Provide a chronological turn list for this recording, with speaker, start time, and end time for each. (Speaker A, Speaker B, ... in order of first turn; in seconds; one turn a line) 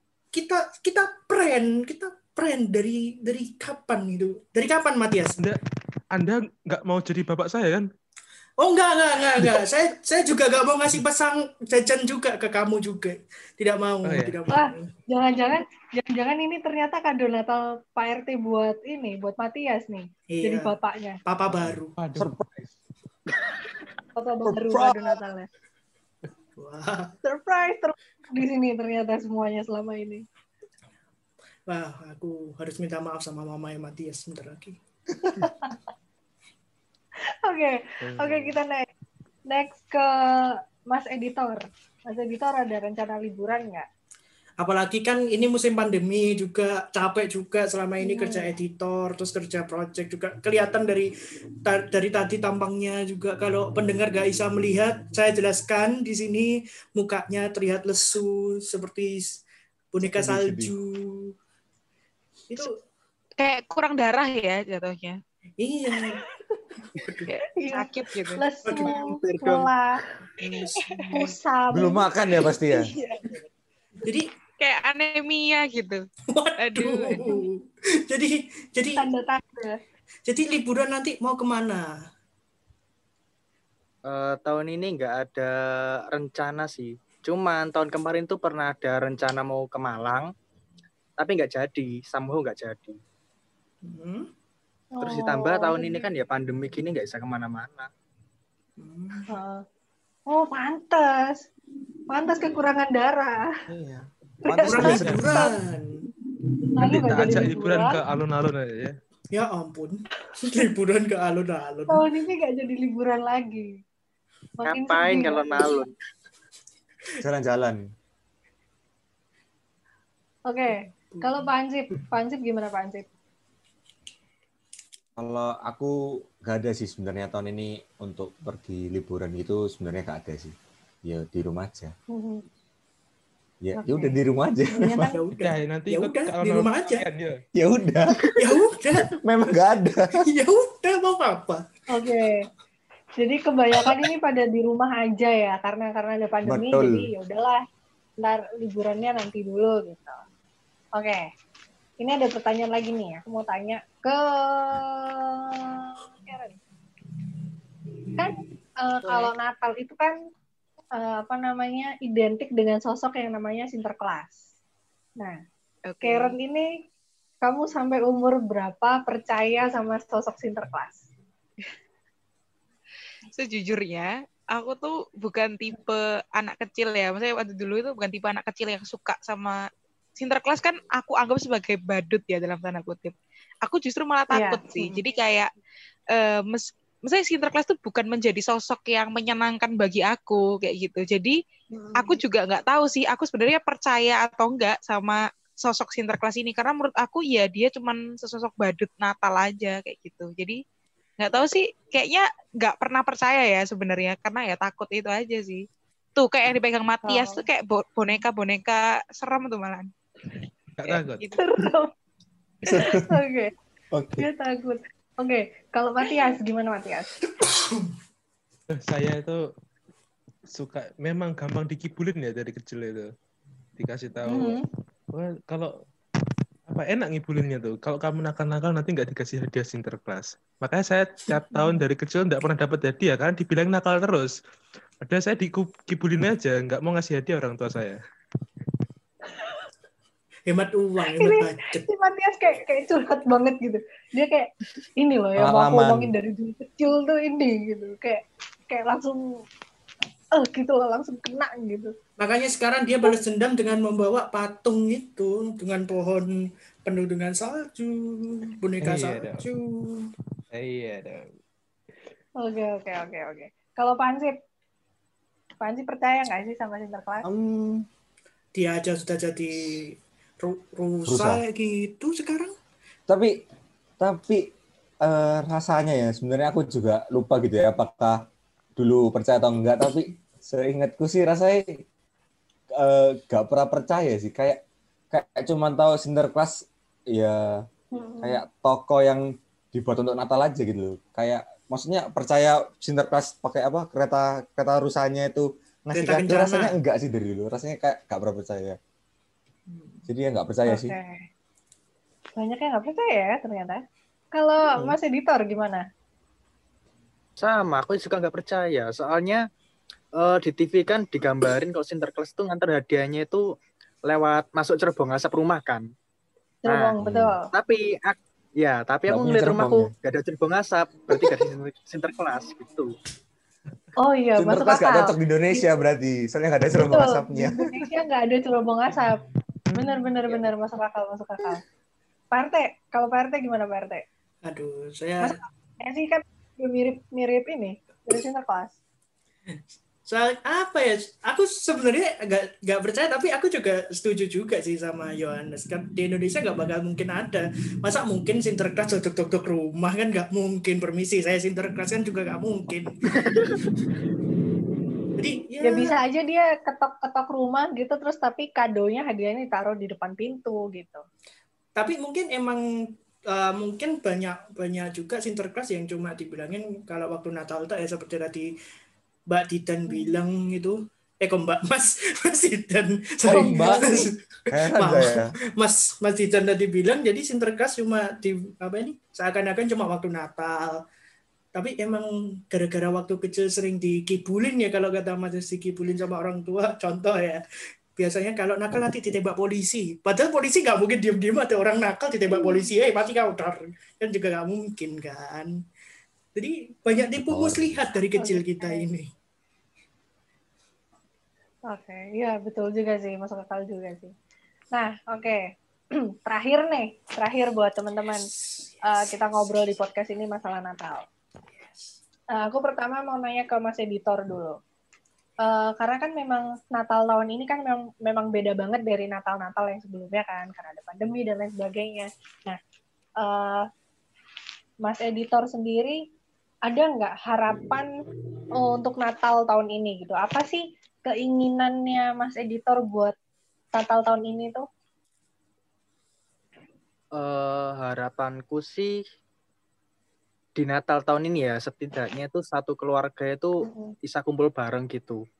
Speaker A: 0.3-5.4
Speaker B: 6.1-7.9
Speaker A: 8.6-14.9
Speaker B: 14.1-14.4
Speaker C: 14.5-21.2
Speaker A: 20.3-21.9
Speaker D: 21.6-22.7
Speaker B: 22.0-22.3
Speaker C: 24.1-25.5
Speaker D: 24.4-25.2
Speaker A: 26.6-27.1
Speaker C: 27.2-30.2
Speaker A: 31.7-34.8
Speaker C: 35.4-35.8
Speaker C: 37.4-38.9
Speaker B: 38.1-38.5
Speaker C: 39.5-43.9
Speaker A: 44.6-51.1
Speaker C: 48.0-48.5
Speaker A: 51.6-59.4
Speaker A: 59.9-61.3
Speaker D: 60.0-60.7
Speaker E: 63.4-65.2
Speaker A: 65.6-66.2
Speaker C: 65.9-66.7
Speaker E: 67.3-68.4
Speaker C: 67.6-70.0
Speaker A: 68.6-68.9
Speaker F: 68.8-69.7
Speaker A: 70.4-71.2
Speaker C: 70.8-72.1
Speaker D: 71.7-72.9
Speaker A: 74.0-74.3
Speaker E: 74.6-76.0
Speaker A: 76.3-79.0
Speaker E: 76.6-77.4
Speaker C: 79.0-79.8
Speaker A: 80.3-81.9
Speaker F: 84.1-90.3
Speaker F: 91.2-93.0
Speaker A: 93.8-94.3
Speaker C: 95.0-96.1
Speaker F: 95.0-97.9
Speaker A: 98.8-99.3
Speaker C: 99.3-99.6
Speaker C: 100.3-101.4
Speaker C: 102.1-103.4
Speaker C: 104.4-105.4
Speaker D: 104.5-105.5
Speaker A: 104.7-106.0
Speaker C: 106.7-108.0
Speaker B: 106.8-108.9
Speaker A: 109.3-112.0
Speaker C: 111.9-113.7
Speaker C: 114.6-115.8
Speaker F: 114.6-115.9
Speaker D: 117.2-117.8
Speaker C: 120.5-123.0
Speaker A: 121.1-121.5
Speaker D: 125.2-130.5
Speaker D: 131.1-131.9
Speaker C: 132.1-132.4
Speaker D: 133.6-135.1
Speaker C: 133.8-134.2
Speaker A: 134.7-137.1
Speaker B: 135.4-137.3
Speaker D: 137.6-138.3
Speaker A: 138.4-139.1
Speaker D: 139.1-140.2
Speaker A: 140.2-141.6
Speaker C: 141.9-142.4
Speaker C: 143.2-147.6
Speaker D: 146.4-147.1
Speaker C: 148.2-150.2
Speaker C: 151.0-151.2
Speaker C: 152.0-156.6
Speaker C: 158.2-160.2
Speaker E: 159.0-159.3
Speaker C: 161.0-164.4
Speaker E: 165.9-166.3
Speaker C: 166.0-166.7
Speaker C: 167.4-171.1
Speaker E: 173.3-179.6
Speaker E: 180.2-185.5
Speaker C: 184.3-185.0
Speaker E: 186.1-191.4
Speaker C: 191.7-192.2
Speaker E: 191.9-200.6
Speaker E: 201.2-205.6
Speaker E: 206.2-209.9
Speaker C: 207.0-207.4
Speaker B: 210.8-211.2
Speaker E: 210.9-211.4
Speaker C: 211.3-211.9
Speaker D: 212.7-213.2
Speaker C: 212.7-213.5
Speaker D: 213.9-214.3
Speaker C: 214.2-217.1
Speaker A: 217.3-217.9
Speaker B: 218.9-219.4
Speaker B: 220.5-223.1
Speaker B: 223.8-224.6
Speaker C: 224.3-224.7
Speaker B: 225.1-225.7
Speaker B: 226.7-234.3
Speaker C: 231.5-231.8
Speaker B: 235.0-238.0
Speaker A: 240.5-241.9
Speaker C: 241.1-249.4
Speaker D: 245.4-246.1
Speaker C: 250.3-251.9
Speaker A: 252.2-260.1
Speaker B: 258.8-259.4
Speaker B: 260.5-261.3
Speaker C: 262.4-264.4
Speaker C: 265.6-267.2
Speaker D: 267.2-267.9
Speaker A: 268.5-272.5
Speaker D: 271.1-271.4
Speaker D: 273.1-273.4
Speaker D: 274.0-274.5
Speaker D: 275.0-278.2
Speaker D: 278.8-281.7
Speaker D: 282.8-287.6
Speaker C: 287.9-288.4
Speaker D: 288.2-298.8
Speaker A: 295.9-296.7
Speaker A: 299.7-300.0
Speaker D: 300.1-300.9
Speaker C: 300.7-301.2
Speaker C: 302.4-303.8
Speaker C: 304.3-305.8
Speaker F: 307.4-309.4
Speaker F: 310.2-313.4
Speaker F: 314.1-315.9
Speaker C: 316.6-317.4
Speaker F: 316.7-317.0
Speaker D: 317.0-317.4
Speaker F: 317.5-322.9
Speaker D: 319.1-319.9
Speaker C: 324.0-325.6
Speaker D: 324.4-327.6
Speaker C: 326.8-329.2
Speaker C: 329.7-331.6
Speaker C: 332.3-334.0
Speaker A: 334.4-335.4
Speaker C: 335.2-338.7
Speaker A: 339.5-353.4
Speaker F: 353.1-353.5
Speaker A: 355.2-355.9
Speaker C: 355.6-361.0
Speaker A: 361.8-362.6
Speaker A: 363.3-368.5
Speaker A: 369.3-380.8
Speaker C: 369.9-370.1
Speaker D: 373.3-374.0
Speaker C: 373.3-374.1
Speaker D: 374.5-375.3
Speaker A: 381.5-387.4
Speaker A: 387.9-395.5
Speaker C: 392.3-392.7
Speaker A: 396.3-399.1
Speaker D: 397.2-397.8
Speaker C: 398.2-398.9
Speaker C: 401.7-404.1
Speaker C: 404.7-405.4
Speaker C: 406.2-408.3
Speaker C: 408.8-411.0
Speaker C: 412.3-414.6
Speaker C: 415.4-422.6
Speaker C: 423.2-423.6
Speaker C: 424.8-426.0
Speaker C: 426.7-427.9
Speaker C: 428.6-433.1
Speaker C: 433.7-434.6
Speaker F: 437.1-438.9
Speaker F: 440.6-445.2
Speaker C: 443.6-443.9